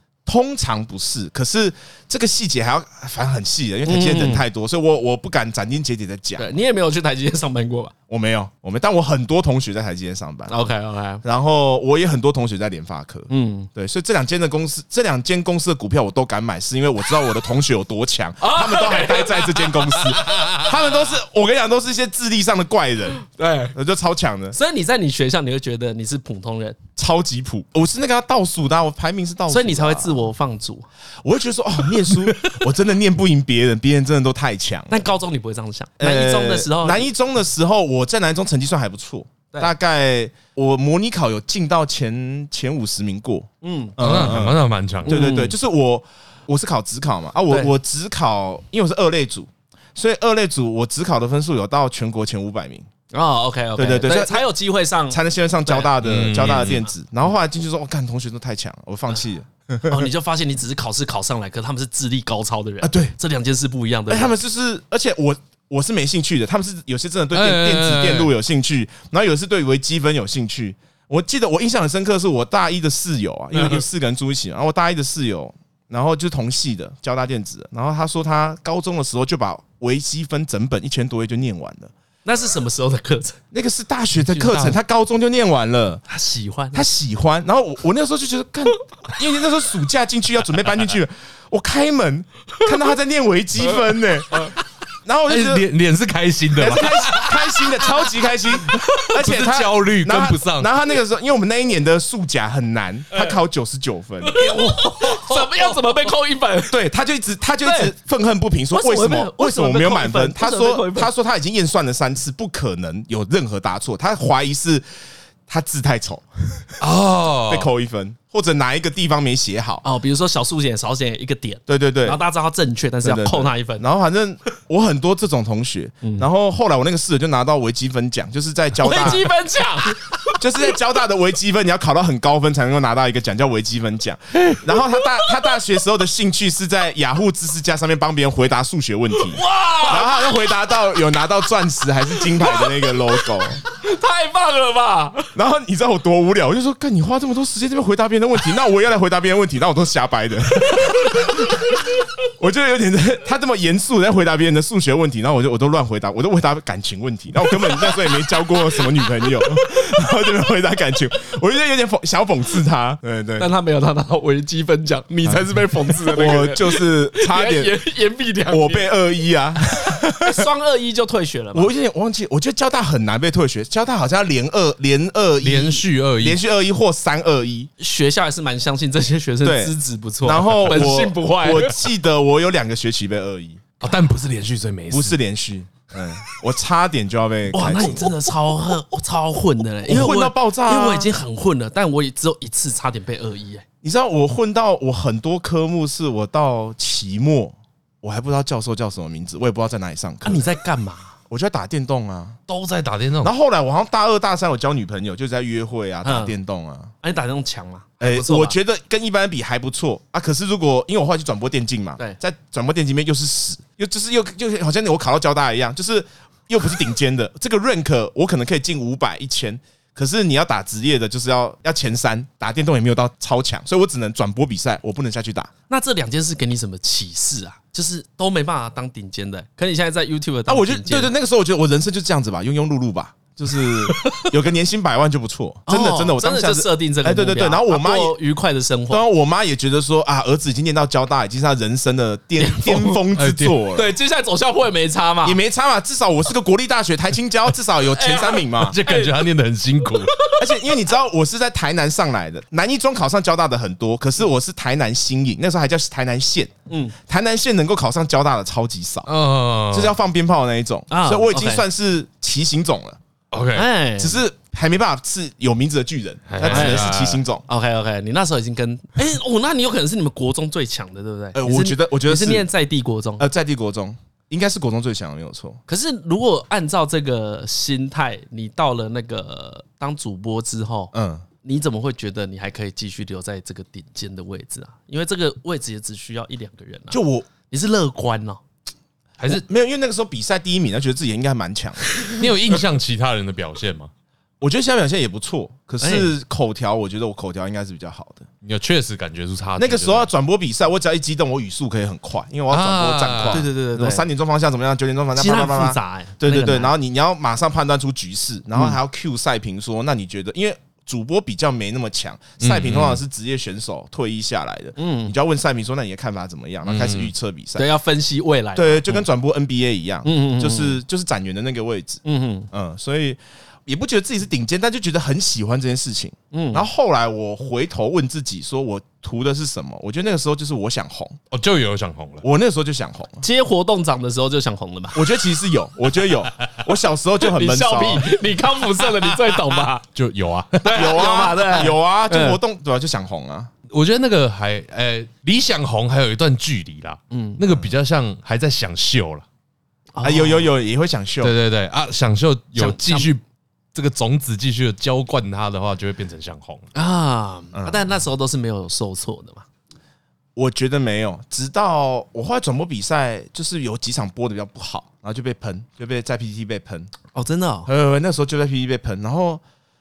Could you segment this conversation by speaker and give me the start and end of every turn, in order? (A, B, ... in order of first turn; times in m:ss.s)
0:00.2-0:06.5 A
0:03.8-0:04.4 B
0:06.4-0:07.9 B
0:08.1-0:10.5 A
0:10.5-0:11.2 B
0:11.2-0:23.2 A
0:13.3-0:13.7 B
0:18.4-0:19.8 B
0:23.2-0:23.7 B
0:23.7-0:24.6 A
0:24.5-0:26.8 B
0:27.0-0:30.3 A
0:29.5-0:30.9 B
0:31.2-0:35.1 A
0:32.1-0:32.6 B
0:34.9-0:37.1 B
0:36.0-0:52.9 A
0:43.6-0:44.3 B
0:44.0-0:45.2 C
0:45.1-0:45.6 B
0:53.1-0:55.9 B
0:53.8-0:54.5 A
0:55.1-1:00.1 A
0:56.0-0:56.8 C
0:59.9-1:04.4 B
1:02.8-1:03.1 A
1:04.1-1:21.9 A
1:07.3-1:08.3 C
1:13.5-1:13.8 B
1:22.2-1:23.4 B
1:23.5-1:26.0 A
1:24.2-1:24.8 B
1:26.1-1:26.9 B
1:26.7-1:35.7 A
1:35.3-1:38.1 C
1:36.6-1:44.4 A
1:38.7-1:40.7 C
1:43.1-1:43.4 B
1:44.2-1:46.8 B
1:44.4-1:45.8 C
1:46.7-1:54.8 A
1:47.6-1:47.9 B
1:48.7-1:51.1 B
1:55.5-1:56.8 A
1:56.8-1:57.7 C
1:57.5-1:59.8 A
1:59.8-2:03.8 B
2:01.7-2:02.2 A
2:03.0-2:09.3 A
2:08.8-2:10.4 B
2:10.3-2:23.6 A
2:14.3-2:15.4 B
2:19.2-2:20.7 B
2:22.2-2:25.3 B
2:25.3-2:43.5 A
2:31.1-2:31.4 B
2:43.4-2:48.9 B
2:46.1-2:47.7 A
2:48.5-2:50.5 A
2:50.1-2:51.7 B
2:51.5-2:57.7 A
2:55.4-2:56.4 C
2:57.8-3:01.8 B
2:59.4-3:03.7 A
3:03.8-3:05.2 C
3:04.9-3:08.1 A
3:07.5-3:13.6 B
3:09.8-3:11.1 A
3:13.8-3:20.5 A
3:20.2-3:21.1 B
3:21.3-3:22.4 A
3:22.5-3:23.3 C
3:23.2-3:26.9 A
3:26.0-3:26.3 B
3:27.0-3:28.6 B
3:28.0-3:45.5 A
3:45.7-3:51.1 B
3:50.5-3:58.2 A
3:53.9-3:54.3 B
3:55.7-3:59.0 B
3:58.9-4:03.9 A
4:02.4-4:03.0 B
4:03.1-4:03.6 C
4:03.7-4:05.4 B
4:05.2-4:08.8 A
4:07.9-4:09.3 B
4:08.5-4:10.2 C
4:09.8-4:10.4 B
4:10.3-4:16.5 A
4:16.7-4:16.9 B
4:17.0-4:19.1 A
4:19.0-4:19.9 C
4:19.7-4:23.0 A
4:20.9-4:21.6 B
4:23.3-4:23.7 C
4:23.5-4:24.2 B
4:24.0-4:27.4 A
4:26.3-4:27.2 C
4:26.4-4:26.9 B
4:27.5-4:33.2 B
4:31.3-4:32.5 A
4:33.2-4:35.6 A
4:35.7-4:48.4 B
4:40.9-4:41.2 A
4:46.9-4:47.3 A
4:49.2-4:52.6 A
4:52.1-4:53.9 C
4:54.4-4:58.3 A
4:55.8-4:56.1 B
4:58.4-5:00.1 C
4:59.6-5:17.6 A
5:02.5-5:03.4 C
5:03.3-5:04.0 B
5:05.1-5:06.7 B
5:12.4-5:13.0 C
5:14.8-5:15.1 B
5:16.6-5:17.1 C
5:17.6-5:19.0 B
5:18.6-5:22.0 A
5:20.0-5:20.8 B
5:22.0-5:22.5 B
5:22.5-5:31.2 A
5:26.3-5:26.7 B
5:31.3-5:32.2 C
5:32.2-5:33.2 A
5:33.2-5:35.0 B
5:34.9-5:38.1 A
5:37.2-5:39.8 B
5:38.8-5:40.6 C
5:40.5-5:42.4 B
5:40.6-5:43.5 A
5:43.7-5:49.2 C
5:47.1-5:47.4 B
5:49.9-5:50.5 B
5:50.0-5:51.3 A
5:51.2-5:53.2 C
5:52.6-5:53.1 B
5:53.7-5:56.7 C
5:56.7-5:59.4 B
5:57.5-5:57.8 A
6:00.4-6:06.9 A
6:07.1-6:07.7 B
6:07.6-6:09.4 A